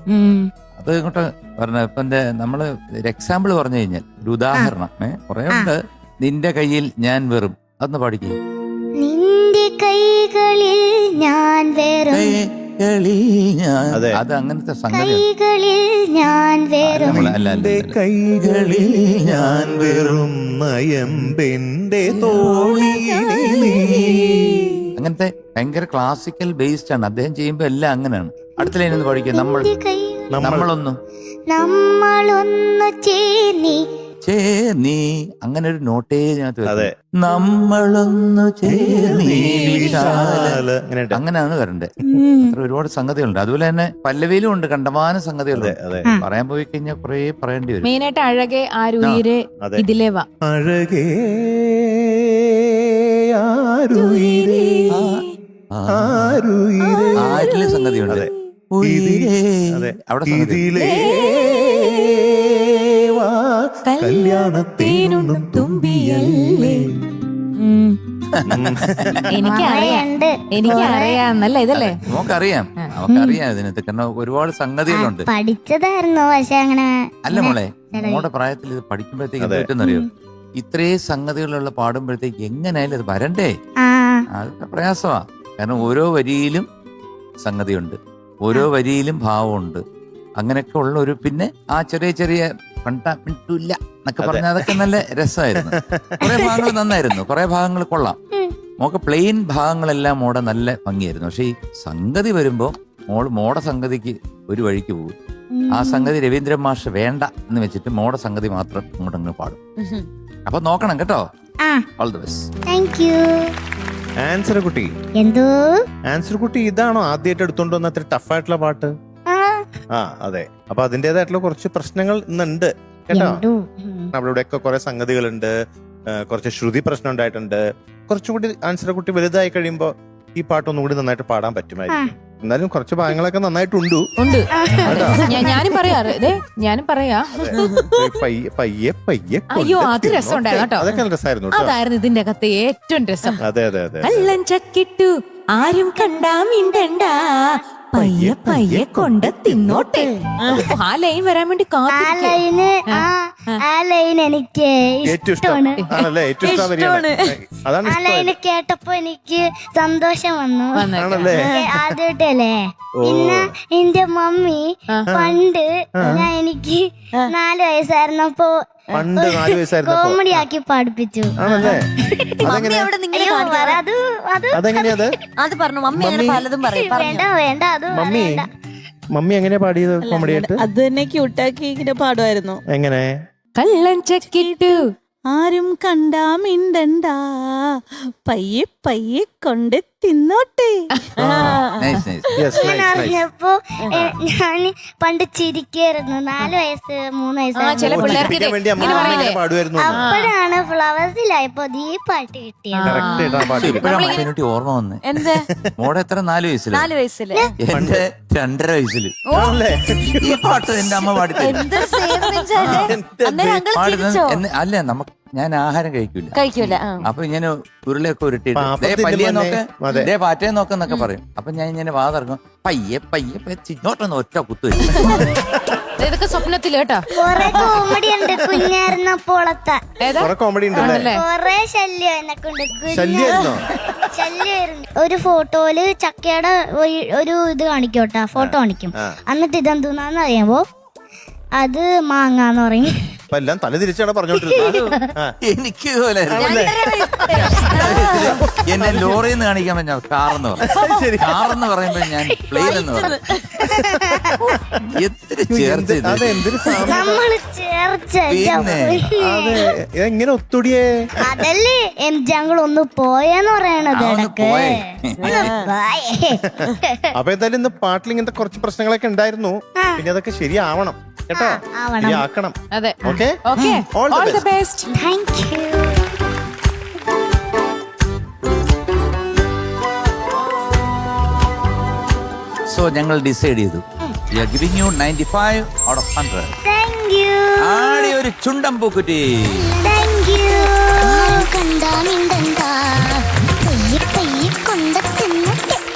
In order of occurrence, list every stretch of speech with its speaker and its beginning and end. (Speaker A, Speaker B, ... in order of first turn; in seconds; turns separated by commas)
Speaker A: 0.1-0.5, Speaker B: 0.8-8.4, Speaker A: 9.0-12.4, Speaker B: 12.1-15.2, Speaker C: 13.9-14.2, Speaker A: 14.9-17.4, Speaker B: 16.8-20.2, Speaker C: 17.0-24.6, Speaker D: 22.6-24.8, Speaker B: 25.0-29.7, Speaker A: 28.6-30.4, Speaker C: 30.3-30.7, Speaker B: 30.4-31.0, Speaker A: 31.5-33.8, Speaker B: 34.2-40.6, Speaker C: 36.7-36.9, Speaker C: 38.7-41.2, Speaker E: 39.5-40.2, Speaker B: 41.1-41.9, Speaker A: 42.1-42.5, Speaker B: 42.4-47.9, Speaker C: 45.5-46.1, Speaker E: 47.8-50.3, Speaker C: 50.5-54.9, Speaker E: 54.0-55.3, Speaker B: 55.7-56.4, Speaker C: 55.9-57.5, Speaker E: 56.8-58.0, Speaker B: 57.2-60.6, Speaker C: 58.8-66.9, Speaker E: 60.8-61.2, Speaker E: 63.9-66.8, Speaker A: 67.6-67.9, Speaker B: 68.4-69.2, Speaker C: 68.5-69.3, Speaker E: 69.3-72.0, Speaker A: 69.4-71.2, Speaker B: 71.7-75.3, Speaker A: 73.1-73.4, Speaker A: 75.3-78.3, Speaker B: 77.3-80.1, Speaker C: 79.4-79.7, Speaker A: 79.8-80.1, Speaker B: 80.6-83.5, Speaker A: 83.8-84.2, Speaker B: 84.3-86.7, Speaker B: 87.4-89.8, Speaker B: 90.4-98.2, Speaker C: 94.2-94.8, Speaker C: 95.6-96.4, Speaker A: 96.3-96.6, Speaker B: 98.8-105.1, Speaker A: 105.5-106.1, Speaker B: 105.7-109.6, Speaker F: 109.8-110.1, Speaker B: 110.5-111.2, Speaker B: 112.0-112.5, Speaker A: 112.7-113.5, Speaker C: 114.2-114.9, Speaker A: 115.2-115.7, Speaker C: 116.1-118.9, Speaker A: 119.3-119.6, Speaker C: 119.9-123.4, Speaker A: 123.1-124.1, Speaker C: 124.2-125.5, Speaker C: 126.2-134.1, Speaker E: 134.2-138.2, Speaker A: 134.6-135.2, Speaker C: 134.8-135.5, Speaker C: 137.4-141.8, Speaker E: 139.5-140.9, Speaker E: 141.5-143.4, Speaker C: 143.4-144.3, Speaker E: 144.0-153.6, Speaker C: 148.0-150.7, Speaker F: 150.4-150.7, Speaker A: 151.9-155.8, Speaker C: 155.1-158.3, Speaker F: 156.4-157.3, Speaker A: 157.9-168.6, Speaker E: 160.8-161.3, Speaker C: 161.0-161.8, Speaker C: 163.0-163.5, Speaker C: 165.1-165.4, Speaker C: 166.0-166.3, Speaker C: 168.9-170.4, Speaker A: 169.2-171.3, Speaker C: 171.4-171.9, Speaker F: 171.5-171.7, Speaker C: 172.4-172.9, Speaker F: 172.4-173.8, Speaker A: 173.1-175.0, Speaker C: 174.5-175.2, Speaker F: 175.4-177.2, Speaker C: 176.0-176.4, Speaker A: 176.9-178.5, Speaker C: 177.9-178.4, Speaker C: 179.2-180.6, Speaker D: 180.2-182.6, Speaker C: 182.7-183.1, Speaker E: 183.6-184.9, Speaker D: 184.3-184.8, Speaker D: 185.3-187.2, Speaker D: 188.3-190.8, Speaker C: 191.2-191.6, Speaker F: 191.2-191.8, Speaker B: 191.8-192.3, Speaker C: 192.4-193.2, Speaker A: 192.6-199.2, Speaker E: 197.6-199.4, Speaker C: 197.8-200.1, Speaker F: 198.8-199.1, Speaker A: 199.8-203.7, Speaker E: 199.9-200.3, Speaker E: 202.7-204.2, Speaker C: 202.8-204.1, Speaker B: 203.6-205.0, Speaker F: 205.1-205.5, Speaker B: 205.8-206.9, Speaker F: 206.7-207.5, Speaker B: 207.6-209.2, Speaker C: 207.7-208.0, Speaker F: 209.3-209.6, Speaker C: 209.3-211.7, Speaker B: 210.2-211.7, Speaker F: 211.4-214.4, Speaker C: 212.6-213.7, Speaker B: 212.6-212.9, Speaker B: 213.8-225.2, Speaker F: 216.3-217.0, Speaker C: 218.6-220.1, Speaker E: 226.0-227.7, Speaker A: 227.2-229.8, Speaker C: 227.6-228.6, Speaker E: 230.0-231.2, Speaker C: 230.2-231.1, Speaker A: 230.8-233.5, Speaker C: 232.9-233.7, Speaker A: 234.1-240.6, Speaker C: 238.4-239.2, Speaker A: 241.6-242.9, Speaker C: 243.3-245.3, Speaker A: 244.5-245.1, Speaker B: 244.6-246.7, Speaker C: 246.3-249.2, Speaker F: 246.4-248.4, Speaker B: 247.4-250.7, Speaker C: 250.6-251.4, Speaker B: 251.2-253.2, Speaker A: 252.6-253.0, Speaker F: 252.6-253.4, Speaker A: 253.6-254.5, Speaker C: 253.6-254.6, Speaker B: 254.9-256.8, Speaker C: 255.5-257.2, Speaker A: 256.9-259.5, Speaker B: 258.3-259.0, Speaker C: 258.5-260.8, Speaker A: 261.2-266.9, Speaker B: 263.9-265.5, Speaker F: 265.2-265.7, Speaker C: 266.6-273.4, Speaker A: 271.3-272.2, Speaker E: 272.7-274.9, Speaker A: 273.1-273.8, Speaker C: 273.9-274.5, Speaker A: 274.9-276.0, Speaker B: 282.7-283.8, Speaker B: 284.4-286.5, Speaker A: 286.6-288.1, Speaker B: 287.6-289.2, Speaker A: 289.4-295.8